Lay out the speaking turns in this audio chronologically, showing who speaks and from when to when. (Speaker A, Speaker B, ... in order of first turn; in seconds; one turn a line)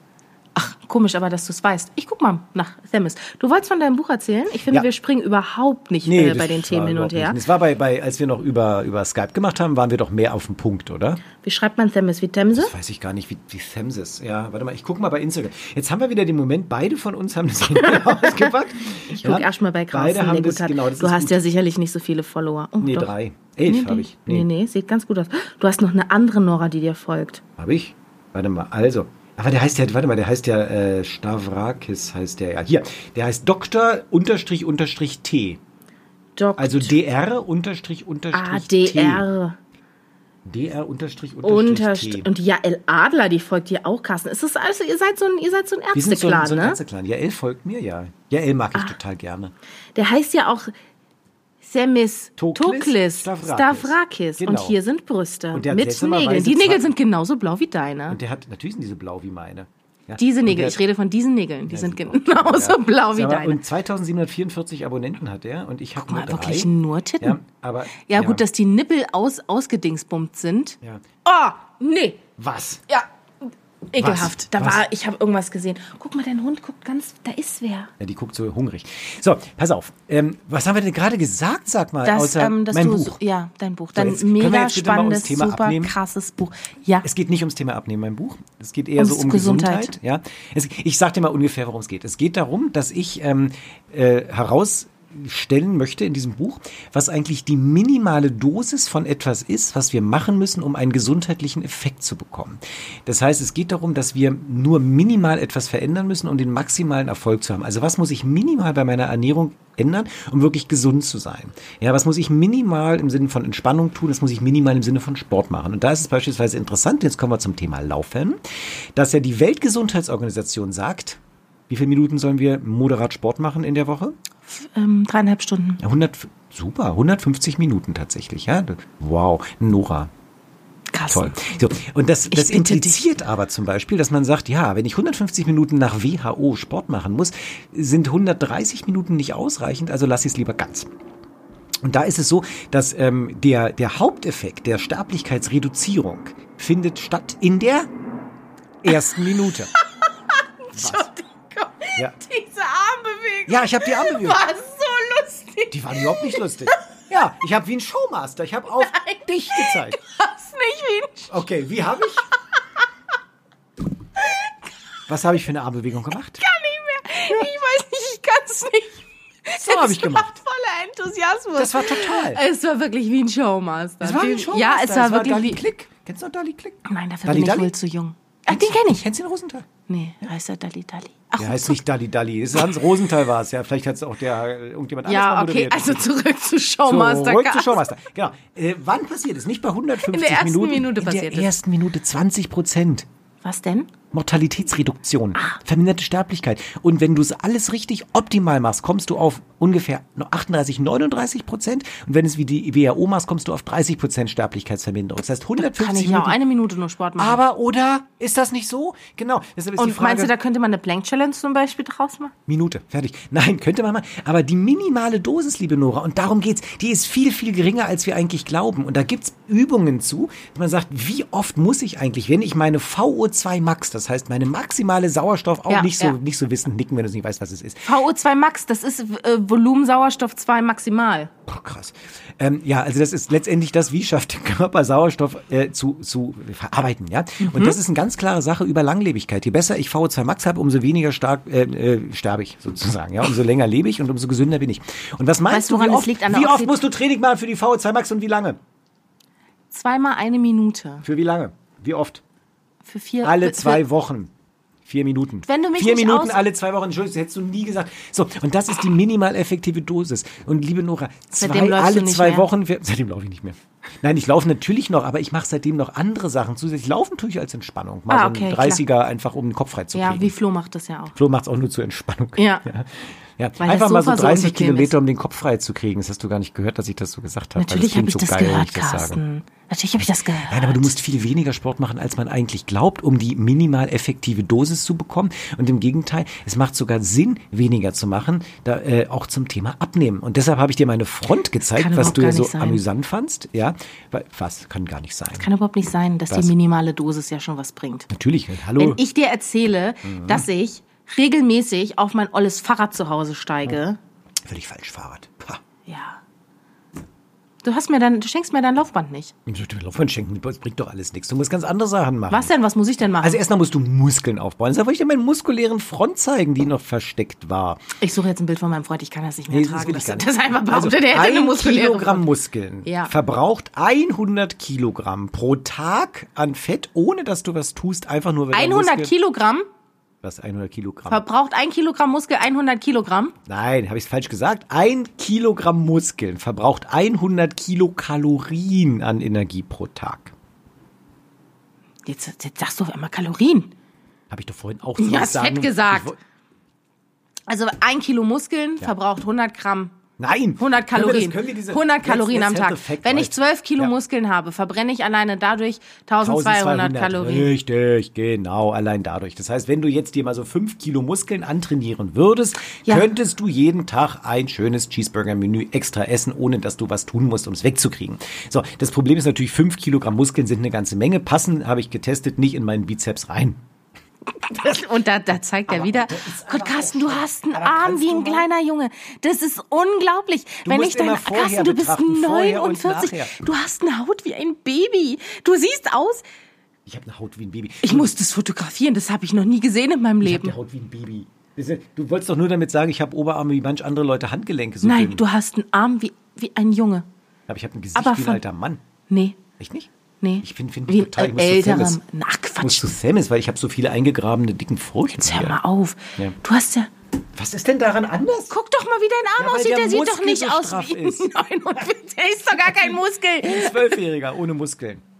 Speaker A: 0.5-7.4
Speaker B: 6.0-11.2
Speaker A: 11.4-12.7
Speaker B: 12.5-21.4
Speaker A: 17.8-18.5
Speaker A: 19.1-23.1
Speaker B: 22.8-24.5
Speaker A: 23.7-27.4
Speaker B: 27.6-35.6
Speaker A: 36.4-37.0
Speaker B: 36.6-39.2
Speaker A: 38.3-39.6
Speaker B: 40.4-42.3
Speaker A: 41.4-46.8
Speaker B: 45.9-49.5
Speaker A: 50.0-50.7
Speaker A: 51.6-58.2
Speaker B: 52.4-54.8
Speaker B: 55.5-56.9
Speaker B: 58.1-60.8
Speaker A: 60.2-63.6
Speaker B: 61.7-66.7
Speaker A: 66.0-67.4
Speaker B: 67.2-68.4
Speaker A: 68.0-72.2
Speaker B: 72.4-72.8
Speaker A: 73.9-77.9
Speaker B: 74.0-74.8
Speaker B: 78.0-83.2
Speaker A: 82.0-87.0
Speaker B: 83.9-86.0
Speaker B: 87.0-124.2
Speaker A: 89.0-89.9
Speaker A: 124.5-125.8
Speaker B: 125.8-130.1
Speaker A: 130.9-131.5
Speaker B: 131.1-140.9
Speaker A: 132.3-133.0
Speaker B: 141.8-147.9
Speaker B: 148.8-149.7
Speaker A: 149.8-156.8
Speaker B: 150.7-151.1
Speaker B: 153.5-154.4
Speaker B: 155.7-160.0
Speaker A: 158.8-161.4
Speaker B: 161.3-162.2
Speaker B: 165.1-166.4
Speaker A: 166.4-175.6
Speaker B: 169.6-170.4
Speaker B: 171.6-172.4
Speaker B: 174.0-177.7
Speaker A: 176.8-179.0
Speaker B: 178.5-179.7
Speaker A: 179.9-181.8
Speaker B: 181.4-186.1
Speaker A: 185.1-187.9
Speaker B: 186.8-193.1
Speaker A: 190.0-191.5
Speaker A: 193.4-193.9
Speaker B: 194.1-206.4
Speaker A: 205.6-207.4
Speaker B: 207.2-210.3
Speaker A: 209.8-212.3
Speaker B: 212.5-227.9
Speaker A: 225.7-226.2
Speaker A: 227.8-231.3
Speaker B: 231.5-248.6
Speaker A: 237.4-237.8
Speaker A: 245.5-246.8
Speaker A: 249.7-251.0
Speaker B: 251.0-252.2
Speaker A: 252.8-253.8
Speaker B: 253.2-254.3
Speaker B: 254.8-270.3
Speaker A: 255.4-256.4
Speaker A: 261.3-262.5
Speaker A: 268.1-268.8
Speaker A: 269.9-271.1
Speaker B: 271.1-279.2
Speaker A: 272.4-272.6
Speaker A: 273.6-274.9
Speaker A: 277.6-280.9
Speaker B: 280.4-295.5
Speaker A: 291.6-292.8
Speaker A: 295.4-298.1
Speaker B: 298.1-299.0
Speaker A: 298.8-304.0
Speaker B: 300.0-300.4
Speaker B: 304.4-305.6
Speaker A: 305.9-306.2
Speaker A: 307.6-309.3
Speaker B: 309.4-312.5
Speaker A: 312.3-313.4
Speaker B: 313.2-317.8
Speaker A: 318.0-322.3
Speaker B: 319.5-329.1
Speaker A: 322.8-323.1
Speaker A: 328.5-329.7
Speaker B: 330.2-331.2
Speaker A: 331.1-333.3
Speaker B: 333.5-340.3
Speaker A: 342.1-343.7
Speaker B: 344.3-346.2
Speaker A: 345.0-346.1
Speaker A: 347.5-350.0
Speaker B: 350.2-353.9
Speaker A: 350.6-357.5
Speaker B: 356.2-373.6
Speaker A: 374.4-386.2
Speaker B: 375.7-378.5
Speaker B: 380.6-383.3
Speaker B: 386.9-388.1
Speaker A: 387.8-390.5
Speaker B: 390.2-395.2
Speaker A: 394.8-397.1
Speaker B: 397.5-398.8
Speaker A: 397.9-398.4
Speaker A: 399.1-399.4
Speaker B: 399.6-399.9
Speaker A: 400.2-402.9
Speaker B: 400.4-402.0
Speaker B: 402.6-405.6
Speaker A: 405.2-406.9
Speaker B: 407.3-408.5
Speaker A: 408.5-414.0
Speaker B: 409.4-411.3
Speaker B: 412.6-415.0